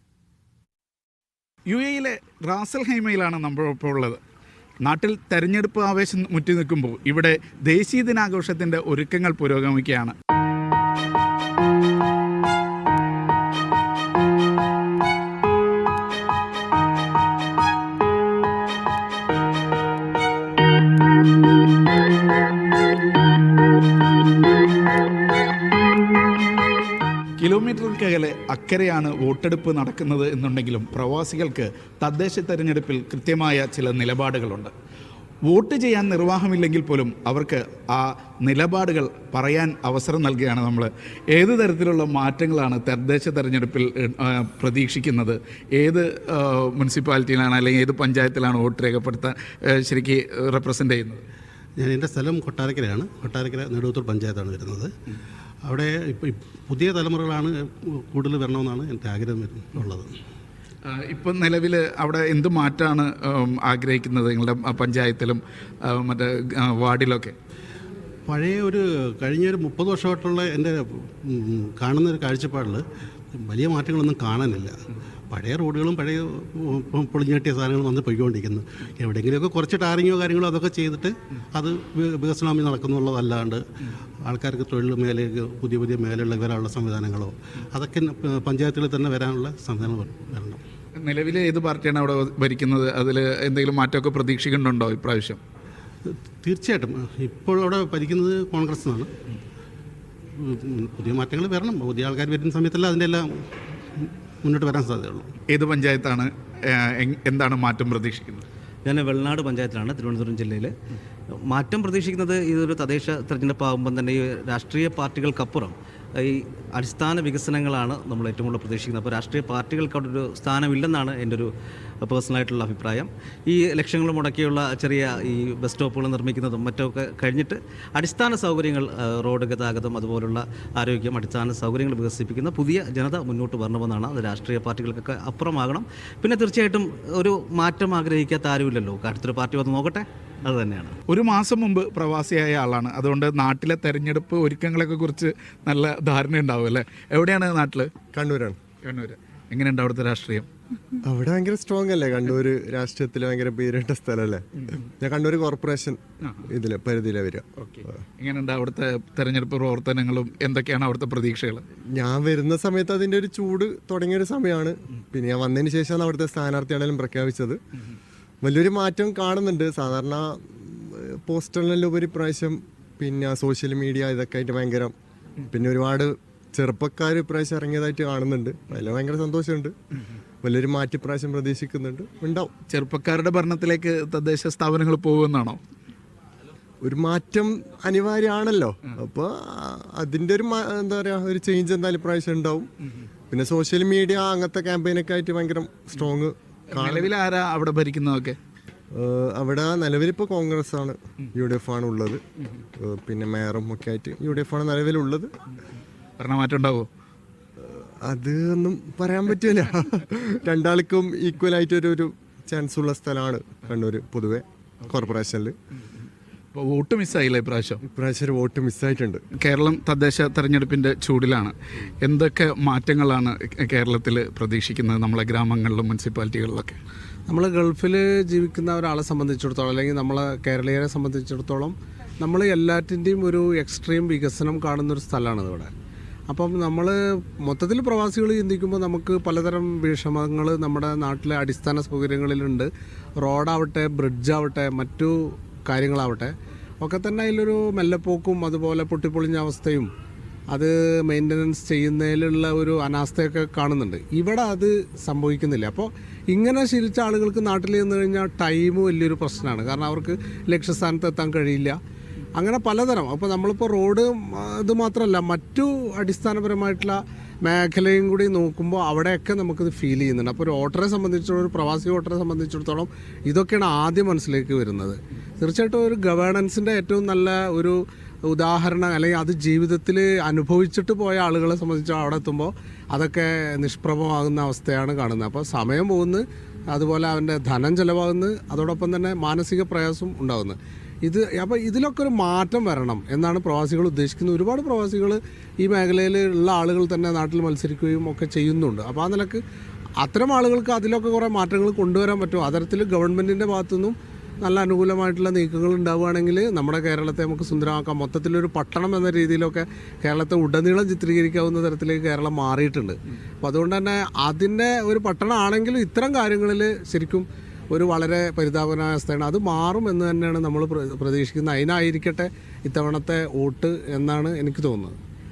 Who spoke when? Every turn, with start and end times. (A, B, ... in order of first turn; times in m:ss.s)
0:01.7-0:04.2 A
0:04.8-0:10.1 A
0:27.4-0:34.7 A
0:35.5-0:51.2 A
0:51.8-0:54.9 B
0:55.6-1:00.1 B
1:00.8-1:07.3 A
1:08.3-1:12.8 B
1:13.4-1:14.8 B
1:15.3-1:23.6 B
1:24.2-1:30.6 B
1:31.0-1:35.4 A
1:36.1-1:39.1 B
1:40.4-1:45.3 B
1:45.5-1:48.4 A
1:48.8-1:50.8 C
1:51.5-2:01.5 C
2:02.0-2:21.0 C
2:21.1-2:27.9 A
2:28.1-2:28.6 D
2:28.8-2:30.5 A
2:31.0-2:37.5 D
2:37.6-2:41.6 A
2:41.9-2:47.6 D
2:48.4-2:54.9 D
2:55.5-2:59.7 D
3:00.4-3:02.5 D
3:02.7-3:05.6 A
3:06.8-3:12.7 D
3:13.3-3:17.1 D
3:16.7-3:18.4 A
3:19.0-3:22.2 D
3:22.8-3:25.3 D
3:26.2-3:26.9 A
3:27.6-3:35.6 D
3:36.5-3:37.8 A
3:37.8-3:39.2 D
3:39.3-3:46.8 A
3:47.3-3:55.7 E
3:56.3-4:09.9 E
4:10.5-4:21.8 E
4:22.4-4:59.4 E
5:00.0-5:25.0 E